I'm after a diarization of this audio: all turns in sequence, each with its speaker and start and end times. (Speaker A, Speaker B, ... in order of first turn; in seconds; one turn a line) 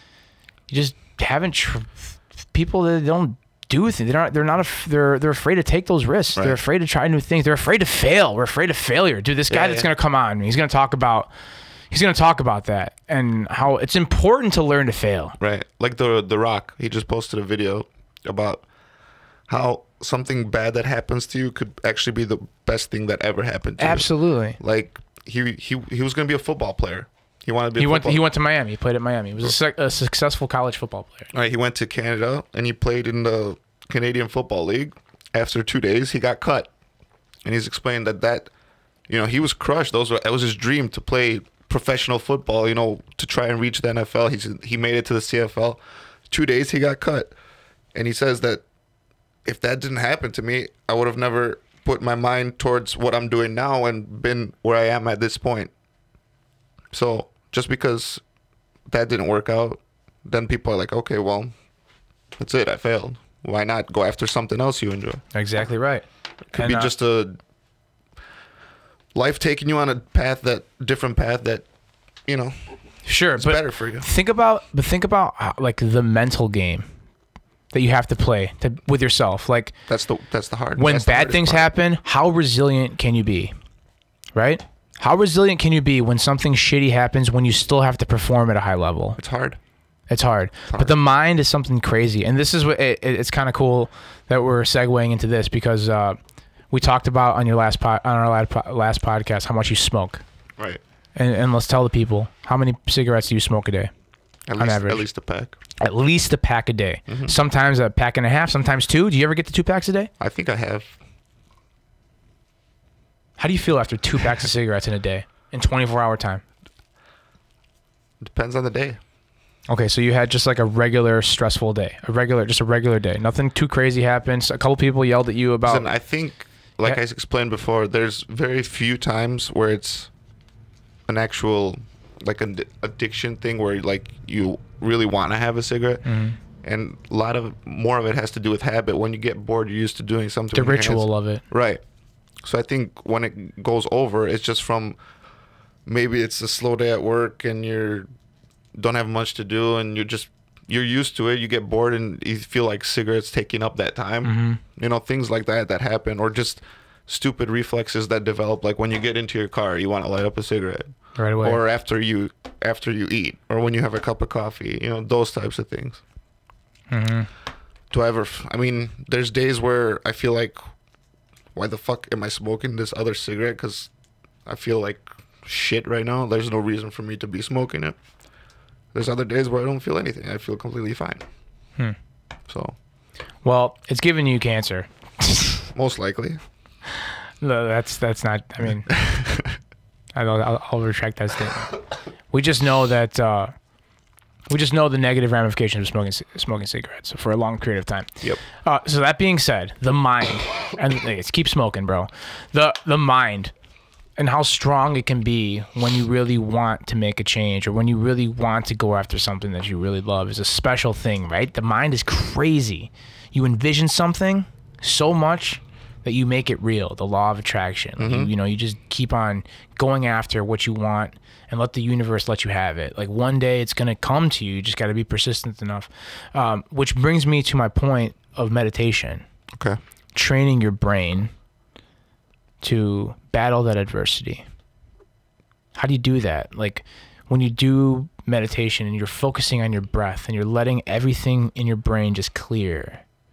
Speaker A: 0.7-11.3
Speaker B: 9.5-9.9
Speaker A: 11.9-15.4
Speaker B: 15.4-18.6
Speaker B: 19.5-28.2
Speaker A: 23.8-24.6
Speaker A: 27.8-31.3
Speaker B: 31.3-36.7
Speaker B: 37.4-38.5
Speaker B: 39.1-47.3
Speaker B: 47.9-48.6
Speaker B: 49.4-55.7
Speaker B: 56.9-58.2
Speaker B: 58.9-61.5
Speaker B: 62.4-65.2
Speaker A: 65.3-66.9
Speaker B: 66.5-67.4
Speaker B: 69.1-71.6
Speaker B: 72.3-72.5
Speaker A: 73.0-76.9
Speaker B: 73.4-74.0
Speaker A: 77.7-79.7
Speaker B: 79.9-81.7
Speaker A: 80.8-83.5
Speaker A: 84.3-89.2
Speaker B: 89.2-89.6
Speaker A: 90.1-96.2
Speaker B: 90.7-91.0
Speaker A: 96.7-100.2
Speaker A: 101.2-103.9
Speaker B: 104.5-105.5
Speaker A: 104.6-105.0
Speaker A: 105.8-110.1
Speaker B: 107.1-107.4
Speaker B: 110.2-110.9
Speaker A: 113.4-116.4
Speaker B: 118.2-119.0
Speaker A: 119.7-125.9
Speaker B: 125.6-130.1
Speaker B: 131.1-136.0
Speaker A: 136.0-136.4
Speaker B: 136.6-141.8
Speaker A: 140.5-141.4
Speaker B: 142.4-145.0
Speaker B: 145.9-148.1
Speaker B: 148.8-160.9
Speaker A: 154.2-154.6
Speaker A: 161.2-161.6
Speaker B: 161.4-166.0
Speaker A: 166.9-167.3
Speaker B: 167.9-170.6
Speaker B: 171.5-173.9
Speaker B: 174.4-178.0
Speaker B: 178.9-181.2
Speaker B: 182.5-182.8
Speaker A: 183.4-185.7
Speaker B: 185.7-186.4
Speaker A: 187.0-188.9
Speaker B: 188.9-189.6
Speaker A: 190.1-191.8
Speaker A: 192.3-193.5
Speaker A: 194.5-203.5
Speaker A: 204.2-229.2
Speaker B: 218.0-218.3
Speaker B: 229.5-229.8
Speaker A: 230.1-231.3
Speaker A: 232.6-234.4
Speaker A: 235.7-243.0